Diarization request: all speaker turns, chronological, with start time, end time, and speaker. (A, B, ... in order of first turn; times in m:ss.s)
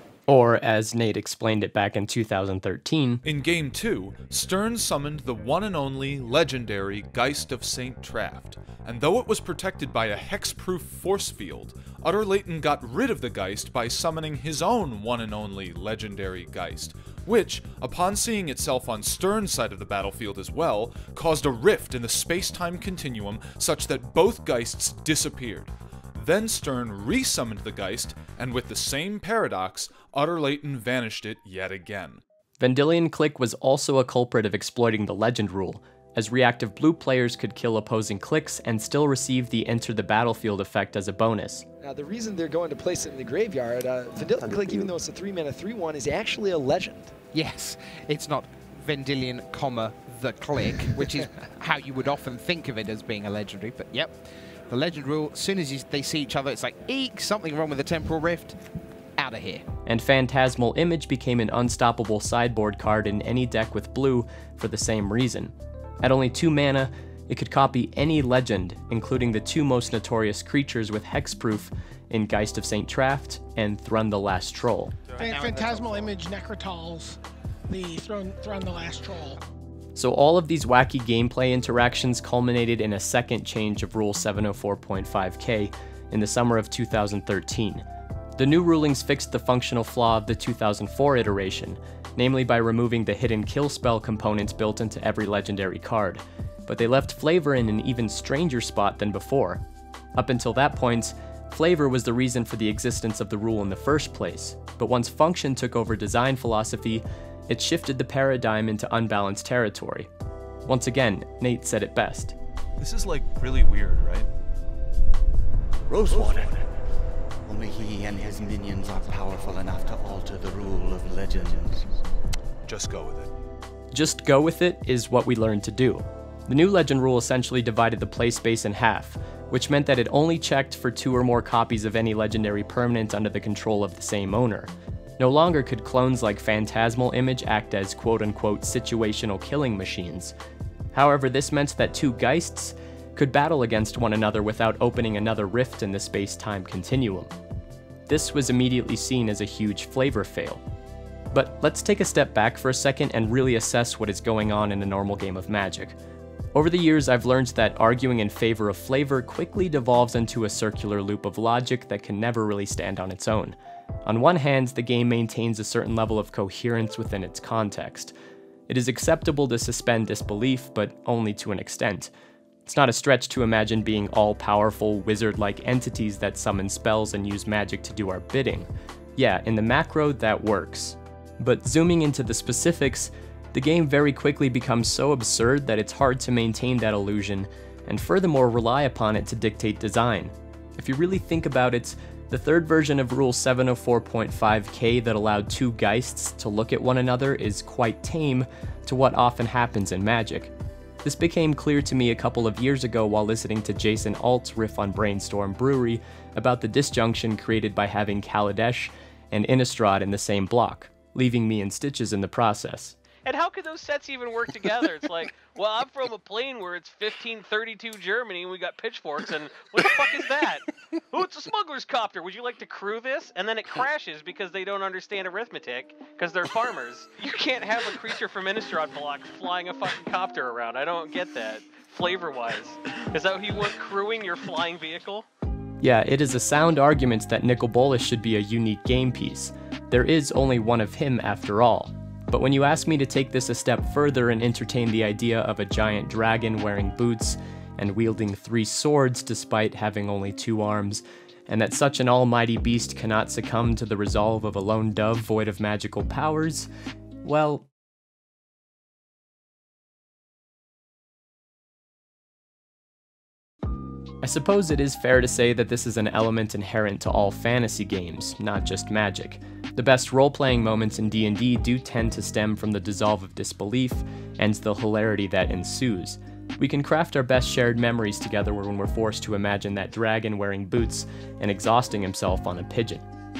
0:00.3-0:03.2 A
0:03.2-0:32.2 B
0:32.6-0:41.6 A
0:41.8-0:47.1 C
0:47.3-0:54.1 D
0:54.7-0:58.6 D
0:59.2-0:59.6 D
0:59.8-1:14.9 A
1:15.2-1:17.2 E
1:15.3-1:16.1 D
1:17.7-1:19.4 E
1:20.0-1:27.8 A
1:28.4-1:39.6 A
1:40.2-1:50.1 A
1:50.6-1:52.3 A
1:52.8-1:54.3 B
1:55.9-1:56.6 F
1:57.4-2:01.8 F
2:02.6-2:03.3 B
2:03.9-2:20.3 A
2:20.9-2:27.3 A
2:28.1-2:30.6 A
2:31.3-2:36.0 A
2:36.5-2:48.1 A
2:48.7-2:52.1 A
2:52.6-3:33.0 A
3:33.2-3:55.2 G
3:55.8-4:16.7 A
4:17.2-4:17.7 A
4:24.2-4:43.0 A